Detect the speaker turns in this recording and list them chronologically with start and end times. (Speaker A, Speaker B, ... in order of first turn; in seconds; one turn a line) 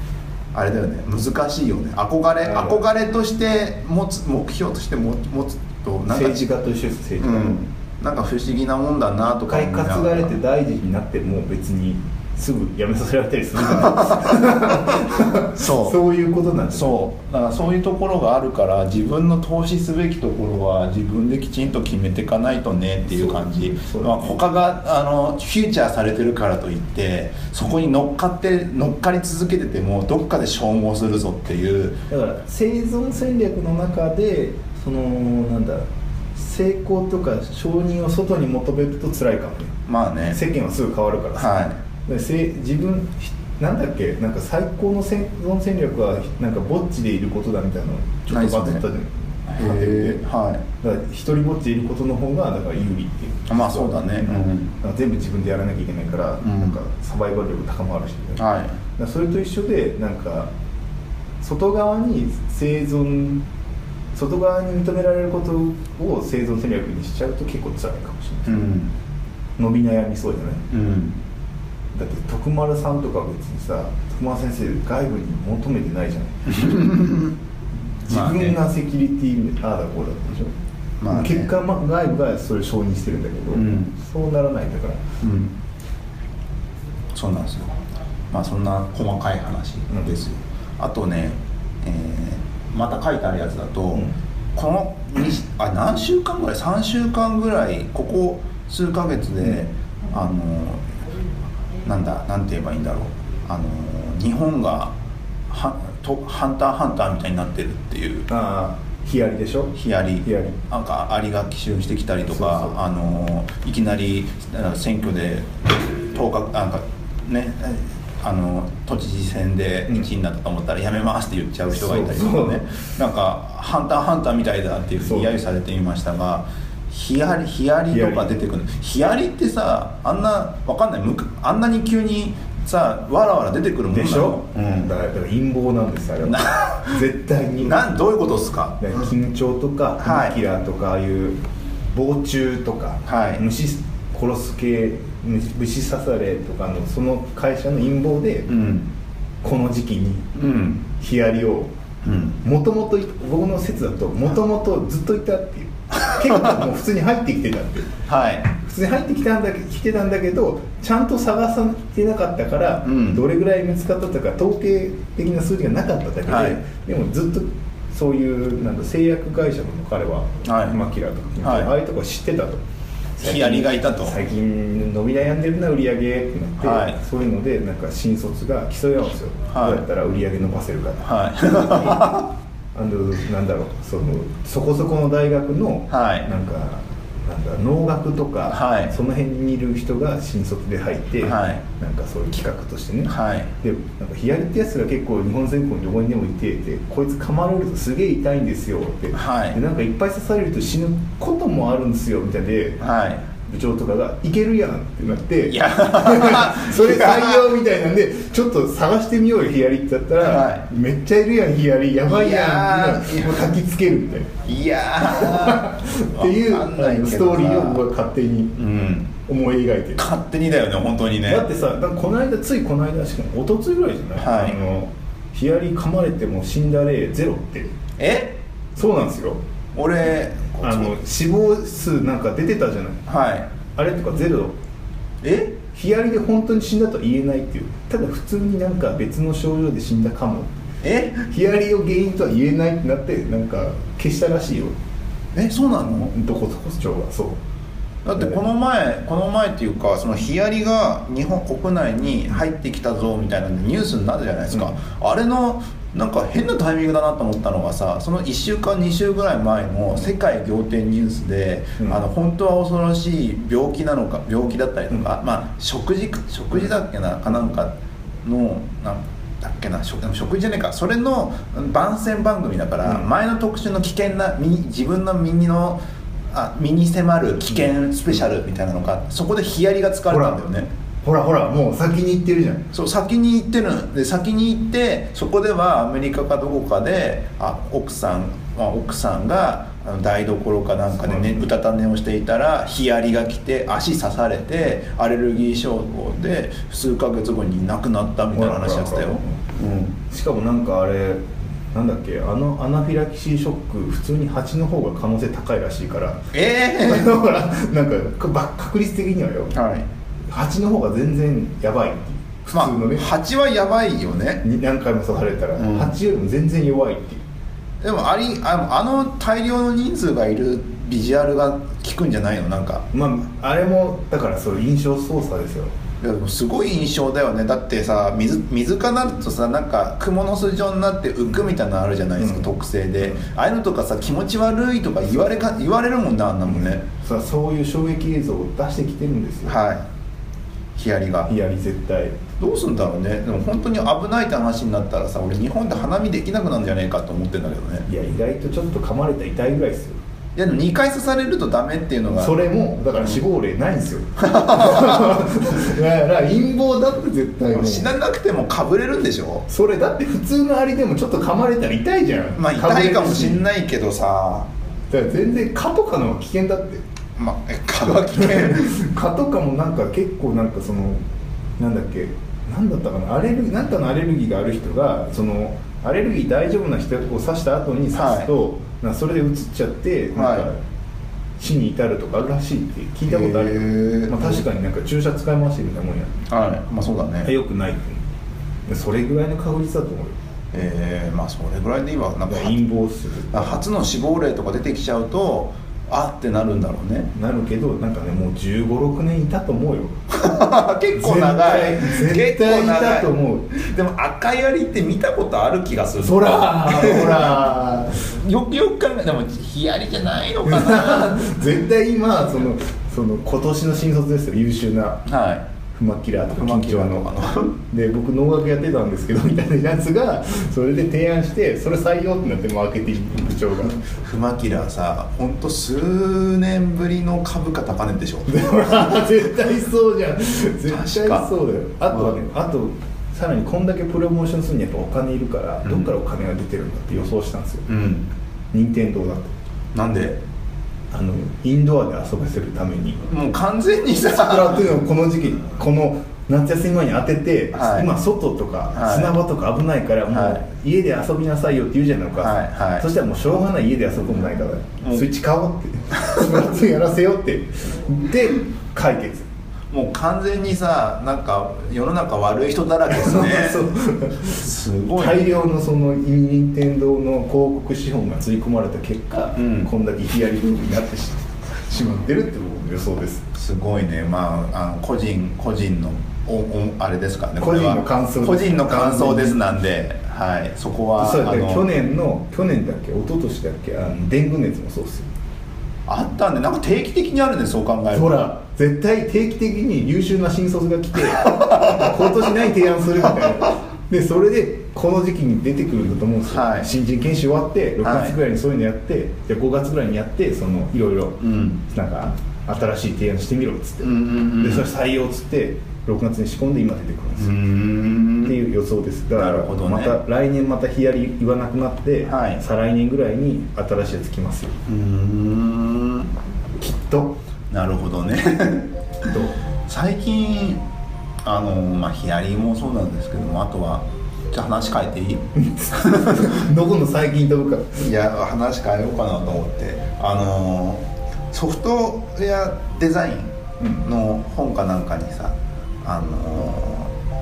Speaker A: 0.5-6.5
Speaker B: 2.4-2.8
Speaker B: 6.1-7.7
Speaker A: 7.2-10.3
Speaker B: 9.5-16.9
Speaker A: 13.6-16.0
Speaker A: 16.7-32.0
Speaker B: 23.1-24.4
Speaker B: 32.1-39.8
Speaker A: 39.9-40.4
Speaker B: 40.3-50.2
Speaker A: 41.4-41.8
Speaker A: 48.3-48.8
Speaker A: 49.5-50.6
Speaker B: 50.8-58.4
Speaker A: 53.5-54.7
Speaker A: 56.4-56.8
Speaker A: 58.4-58.8
Speaker B: 58.9-60.5
Speaker B: 61.4-63.4
Speaker B: 64.1-68.7
Speaker A: 68.5-68.9
Speaker B: 69.6-70.7
Speaker A: 70.7-71.2
Speaker B: 71.9-76.8
Speaker A: 76.5-77.4
Speaker A: 78.0-78.6
Speaker B: 78.0-80.5
Speaker A: 81.0-81.5
Speaker B: 81.1-85.0
Speaker A: 83.5-83.9
Speaker A: 85.2-85.5
Speaker A: 87.1-87.7
Speaker A: 88.3-100.9
Speaker B: 89.9-90.2
Speaker A: 101.8-104.9
Speaker A: 105.5-108.3
Speaker B: 108.3-110.6
Speaker A: 109.7-134.9
Speaker B: 112.3-112.8
Speaker B: 121.7-122.6
Speaker B: 125.0-125.3
Speaker B: 127.9-128.4
Speaker B: 133.9-137.8
Speaker A: 136.2-137.0
Speaker A: 137.6-139.0
Speaker B: 138.8-141.4
Speaker A: 140.0-140.4
Speaker B: 141.9-148.5
Speaker A: 143.1-143.4
Speaker A: 148.5-148.9
Speaker B: 149.4-150.3
Speaker A: 150.3-150.8
Speaker B: 150.9-151.7
Speaker A: 152.0-152.4
Speaker B: 152.4-158.0
Speaker A: 156.1-156.6
Speaker A: 158.1-158.5
Speaker B: 158.5-172.6
Speaker A: 162.8-163.2
Speaker A: 166.3-166.6
Speaker A: 170.4-170.8
Speaker A: 171.4-171.7
Speaker B: 173.2-182.2
Speaker A: 173.2-174.2
Speaker A: 176.6-177.0
Speaker A: 179.5-179.8
Speaker A: 181.0-182.3
Speaker B: 182.7-202.8
Speaker A: 185.9-186.3
Speaker A: 188.5-188.9
Speaker A: 191.2-191.6
Speaker A: 193.1-193.5
Speaker A: 199.1-199.6
Speaker A: 202.8-203.2
Speaker B: 203.4-214.3
Speaker A: 205.5-207.5
Speaker A: 210.2-210.6
Speaker A: 212.1-213.5
Speaker A: 214.4-217.8
Speaker B: 215.0-218.6
Speaker A: 218.6-219.1
Speaker B: 219.2-220.1
Speaker A: 220.0-221.5
Speaker B: 221.2-227.8
Speaker A: 224.2-224.6
Speaker A: 228.0-228.4
Speaker B: 228.8-229.4
Speaker A: 229.7-230.9
Speaker B: 230.6-233.0
Speaker A: 233.1-233.5
Speaker B: 233.8-234.5
Speaker A: 235.2-235.6
Speaker B: 235.7-240.7
Speaker A: 240.8-241.2
Speaker B: 241.2-244.7
Speaker A: 245.3-246.1
Speaker B: 245.8-247.4
Speaker A: 248.0-275.8
Speaker B: 248.2-248.4
Speaker A: 276.3-280.7
Speaker B: 280.1-280.4
Speaker B: 281.0-282.7
Speaker A: 282.7-299.9
Speaker B: 291.1-291.4
Speaker B: 298.3-299.4
Speaker B: 300.1-309.5
Speaker A: 306.3-307.1
Speaker A: 309.5-309.9
Speaker B: 310.3-313.1
Speaker A: 312.5-314.4
Speaker B: 314.4-317.2
Speaker A: 315.6-315.9
Speaker A: 317.8-322.9
Speaker B: 322.9-325.7
Speaker A: 326.0-336.8
Speaker B: 332.2-332.5
Speaker B: 336.9-339.6
Speaker A: 339.4-339.9
Speaker A: 340.7-341.3
Speaker B: 341.3-342.2
Speaker A: 342.4-347.9
Speaker B: 347.9-350.0
Speaker A: 350.4-352.3
Speaker B: 352.2-357.9
Speaker A: 354.2-355.2
Speaker A: 357.5-359.4
Speaker B: 359.5-363.4
Speaker A: 362.4-364.5
Speaker B: 364.9-366.8
Speaker A: 367.1-368.7
Speaker B: 367.9-371.0
Speaker B: 371.6-380.6
Speaker A: 377.9-378.3
Speaker A: 380.1-380.5
Speaker B: 381.4-386.2
Speaker A: 383.1-384.4
Speaker A: 386.3-387.3
Speaker B: 387.2-388.0
Speaker B: 388.7-390.2
Speaker A: 390.5-392.6
Speaker B: 392.3-393.6
Speaker A: 393.3-397.1
Speaker B: 397.1-400.0
Speaker A: 400.1-407.4
Speaker B: 400.9-403.6
Speaker B: 406.0-408.0
Speaker A: 408.0-411.4
Speaker B: 410.4-415.1
Speaker A: 415.1-415.4
Speaker B: 415.7-423.9
Speaker A: 416.3-417.5
Speaker A: 423.9-428.8
Speaker B: 428.3-437.7
Speaker A: 430.7-431.3
Speaker A: 431.9-432.1
Speaker A: 435.6-435.9
Speaker A: 437.7-438.1
Speaker B: 438.5-439.3
Speaker A: 439.7-440.2
Speaker B: 440.9-443.1
Speaker A: 443.1-444.7
Speaker B: 444.1-459.3
Speaker A: 447.5-447.9
Speaker A: 448.7-449.2
Speaker A: 450.1-450.4
Speaker A: 452.2-452.9
Speaker A: 454.8-455.1
Speaker A: 456.0-456.4
Speaker A: 459.7-463.7
Speaker B: 462.9-473.3
Speaker A: 464.2-465.2
Speaker A: 469.4-469.7
Speaker A: 473.3-481.7
Speaker B: 477.4-479.4
Speaker B: 481.0-485.1
Speaker A: 485.9-488.1
Speaker B: 487.9-507.4
Speaker A: 491.1-492.2
Speaker A: 493.1-493.4
Speaker A: 496.3-496.7
Speaker A: 497.8-498.2
Speaker A: 501.2-501.6
Speaker A: 503.8-504.7
Speaker A: 507.2-508.4
Speaker B: 508.2-514.6
Speaker A: 509.1-510.0
Speaker A: 512.1-512.4
Speaker A: 514.7-516.1
Speaker B: 516.6-517.2
Speaker A: 517.5-519.0
Speaker B: 519.0-519.4
Speaker A: 519.7-520.6
Speaker A: 521.2-526.4
Speaker B: 525.3-527.9
Speaker A: 527.8-536.9
Speaker B: 533.6-533.8